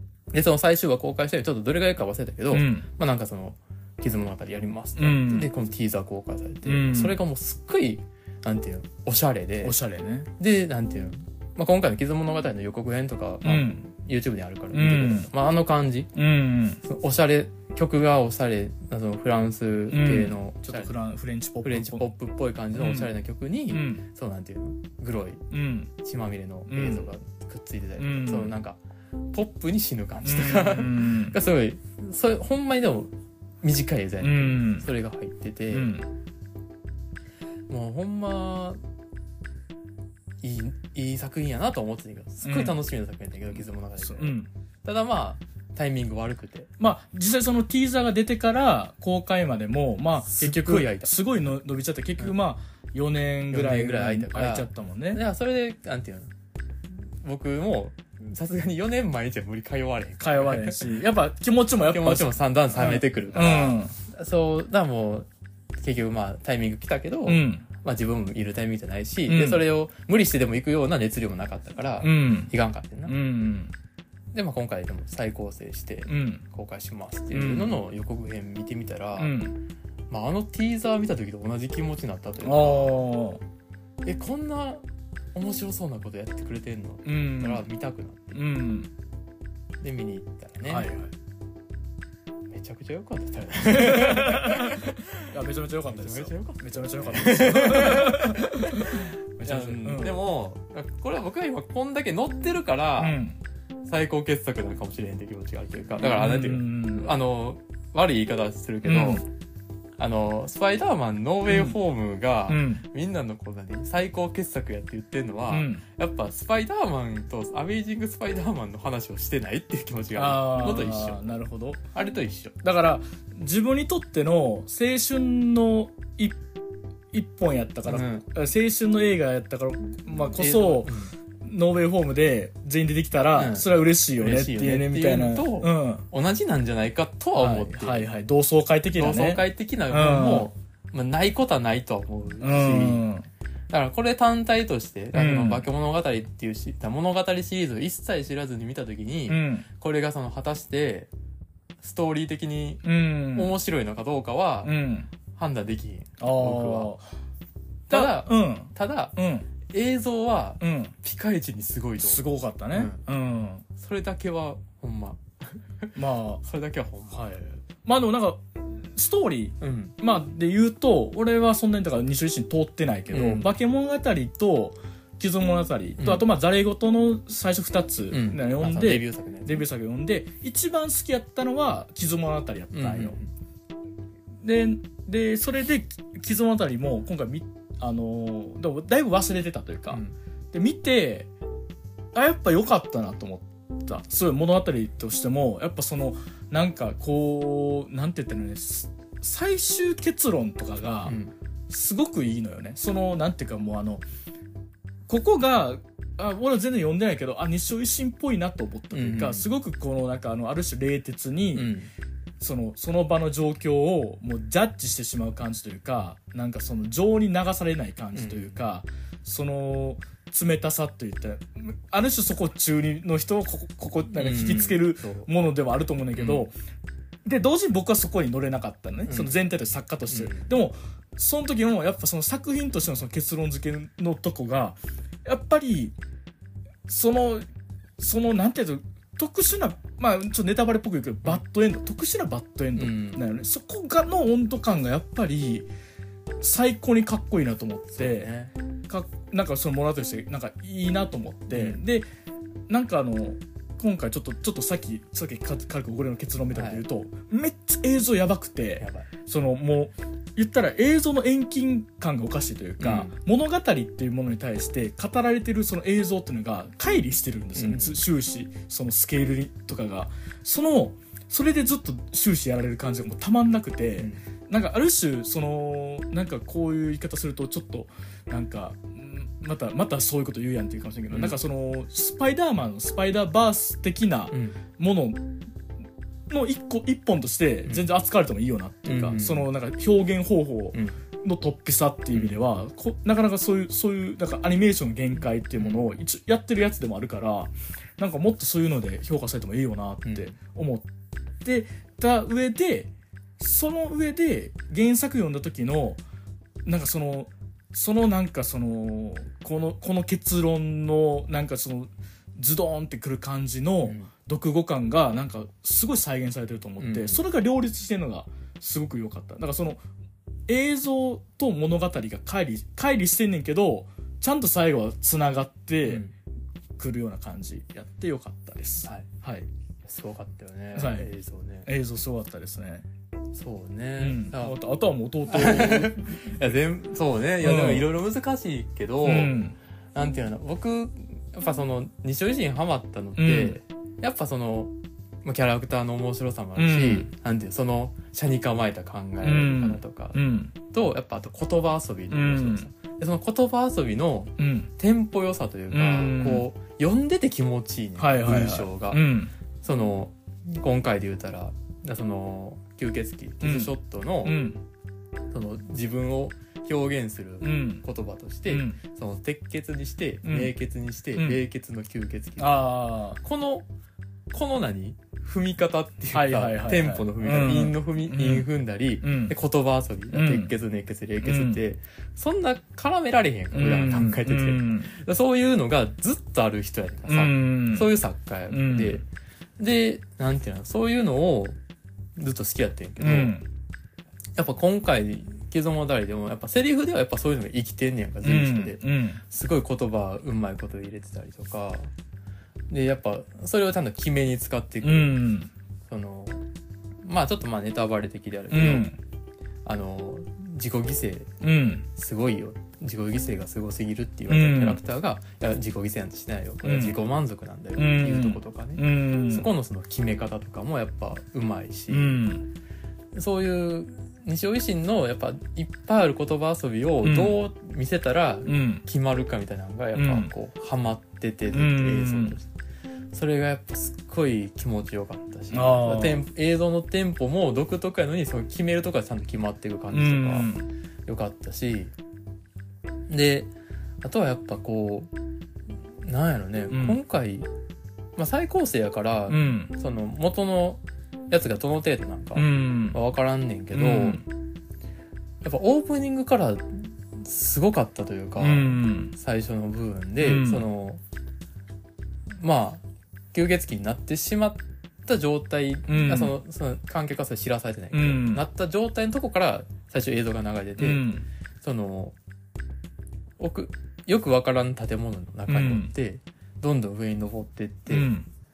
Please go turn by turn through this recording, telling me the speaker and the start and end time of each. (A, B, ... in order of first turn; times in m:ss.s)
0:00.3-0:09.8 A
0:02.5-0:02.9 B
0:05.0-0:05.5 B
0:06.6-0:07.2 B
0:09.6-0:10.3 B
0:10.4-0:16.1 A
0:13.4-0:13.8 B
0:14.7-0:15.3 B
0:16.1-0:16.8 B
0:16.8-0:20.9 A
0:19.9-0:22.0 B
0:21.6-0:25.4 A
0:22.7-0:23.1 B
0:23.7-0:24.0 B
0:25.5-0:25.9 B
0:26.0-0:28.8 A
0:26.7-0:27.0 B
0:28.0-0:28.5 B
0:29.3-0:35.9 A
0:30.2-0:31.4 B
0:34.2-0:34.9 B
0:35.7-0:36.1 B
0:37.7-0:38.8 A
0:40.4-0:46.7 A
0:42.4-0:42.8 B
0:43.5-0:44.5 B
0:46.8-0:55.2 B
0:50.2-0:51.1 A
0:53.5-0:56.3 A
0:57.1-1:00.9 A
1:00.2-1:03.9 B
1:01.8-1:05.3 A
1:05.8-1:13.1 A
1:07.2-1:07.7 B
1:09.2-1:09.6 B
1:12.0-1:12.5 B
1:13.0-1:13.7 B
1:14.3-1:19.4 A
1:16.1-1:16.4 B
1:17.3-1:17.8 B
1:19.2-1:19.6 B
1:20.1-1:23.0 A
1:22.4-1:23.4 B
1:24.0-1:24.8 A
1:25.3-1:28.4 A
1:27.0-1:27.7 B
1:28.3-1:28.9 B
1:29.8-1:30.9 A
1:30.6-1:31.1 B
1:32.5-1:43.2 A
1:33.6-1:40.2 B
1:43.0-1:43.4 B
1:43.8-1:49.2 A
1:46.0-1:47.1 B
1:48.8-1:49.2 B
1:50.0-2:01.3 A
1:51.5-1:51.8 B
1:52.5-1:52.8 B
1:55.5-1:55.8 B
2:00.1-2:01.8 B
2:01.9-2:02.5 A
2:02.6-2:06.4 B
2:07.1-2:16.0 B
2:07.8-2:08.2 A
2:10.2-2:11.1 A
2:13.3-2:18.1 A
2:17.3-2:20.5 B
2:19.0-2:23.1 A
2:22.4-2:23.3 B
2:23.7-2:31.1 A
2:25.1-2:25.7 B
2:29.3-2:29.7 B
2:31.8-2:34.7 A
2:32.8-2:33.5 B
2:34.6-2:35.1 B
2:35.3-2:36.9 A
2:36.2-2:37.2 B
2:37.9-2:39.2 A
2:37.9-2:39.5 B
2:39.7-2:43.0 A
2:40.6-2:40.9 B
2:42.0-2:43.6 B
2:43.7-2:47.2 A
2:45.9-2:46.4 B
2:47.1-3:03.2 B
2:49.6-2:49.9 A
2:53.1-2:53.5 A
2:56.0-2:56.2 A
2:58.1-2:59.6 A
3:02.7-3:03.3 A
3:04.4-3:11.3 B
3:12.1-3:21.2 B
3:21.0-3:21.3 A
3:21.7-3:24.0 B
3:25.1-3:31.7 B
3:28.9-3:29.5 A
3:31.5-3:31.9 A
3:32.4-3:46.5 B
3:38.1-3:38.6 A
3:44.2-3:45.3 A
3:46.2-3:46.5 A
3:47.2-3:55.9 B
3:49.1-3:49.3 A
3:50.1-3:50.5 A
3:56.9-3:57.4 B
3:58.0-4:05.7 B
4:02.8-4:03.2 A
4:06.4-4:08.3 B
4:08.0-4:08.5 A
4:08.9-4:12.1 B
4:11.5-4:11.8 A
4:12.7-4:45.4 B
4:16.5-4:16.8 A
4:18.8-4:19.1 A
4:22.8-4:23.2 A
4:27.5-4:28.0 A
4:41.1-4:41.4 A
4:44.3-4:44.6 A
4:46.3-5:00.9 B
4:48.8-4:49.5 A
4:55.6-4:55.9 A
5:00.0-5:00.3 A
5:01.4-5:06.0 B
5:06.6-5:19.8 B
5:13.8-5:14.1 A
5:16.8-5:17.2 A
5:20.5-5:26.0 B
5:25.8-5:26.1 A
5:26.8-5:29.5 B
5:29.8-5:31.7 A
5:30.7-5:31.1 B
5:31.6-5:32.8 B
5:33.3-5:34.6 A
5:34.0-5:36.4 B
5:35.3-5:39.4 A
5:37.4-5:37.9 B
5:39.0-5:39.6 B
5:39.9-5:44.7 A
5:43.2-5:43.6 B
5:45.2-5:59.0 A
5:46.6-5:47.1 B
5:49.2-5:50.5 B
5:52.1-5:52.7 B
5:54.4-5:54.7 B
5:55.7-5:56.5 B
5:58.0-5:59.3 B
5:59.6-6:04.4 A
6:03.4-6:04.6 B
6:05.3-6:13.7 A
6:07.4-6:07.8 B
6:08.5-6:08.8 B
6:10.2-6:10.5 B
6:11.1-6:11.4 B
6:12.4-6:13.2 B
6:14.3-6:29.0 A
6:16.1-6:18.5 B
6:19.0-6:19.4 B
6:20.1-6:20.5 B
6:21.2-6:21.6 B
6:23.5-6:24.9 B
6:27.1-6:27.9 B
6:28.5-6:29.0 B
6:29.6-6:31.6 A
6:32.2-6:33.4 A
6:33.0-6:33.4 B
6:34.4-6:41.9 A
6:38.2-6:39.2 B
6:42.7-6:45.3 A
6:44.8-6:45.5 B
6:45.9-6:46.4 A
6:47.0-6:48.9 A
6:48.5-6:49.0 B
6:49.6-6:51.3 A
6:51.4-6:51.9 B
6:51.9-7:02.3 A
6:54.3-6:54.8 B
6:56.6-6:57.0 B
6:57.8-6:59.5 B
7:01.9-7:02.5 B
7:03.1-7:12.5 A
7:07.0-7:07.4 B
7:08.4-7:08.8 B
7:10.0-7:10.3 B
7:11.5-7:12.4 B
7:13.1-7:20.5 A
7:15.5-7:16.2 B
7:19.9-7:20.7 B
7:21.1-7:21.9 A
7:23.1-7:23.5 A
7:24.0-7:25.1 A
7:26.0-7:27.5 A
7:26.7-7:27.0 B
7:28.2-7:34.2 A
7:29.3-7:29.7 B
7:32.4-7:33.0 B
7:33.7-7:34.2 B
7:35.4-7:41.0 A
7:38.4-7:39.1 B
7:40.2-7:40.7 B
7:42.4-7:42.8 A
7:43.3-7:51.1 A
7:45.9-7:46.4 B
7:47.9-7:48.4 B
7:50.8-7:51.3 B
7:51.6-7:52.2 A
7:53.4-7:58.1 A
7:55.5-7:55.9 B
7:57.9-7:58.3 B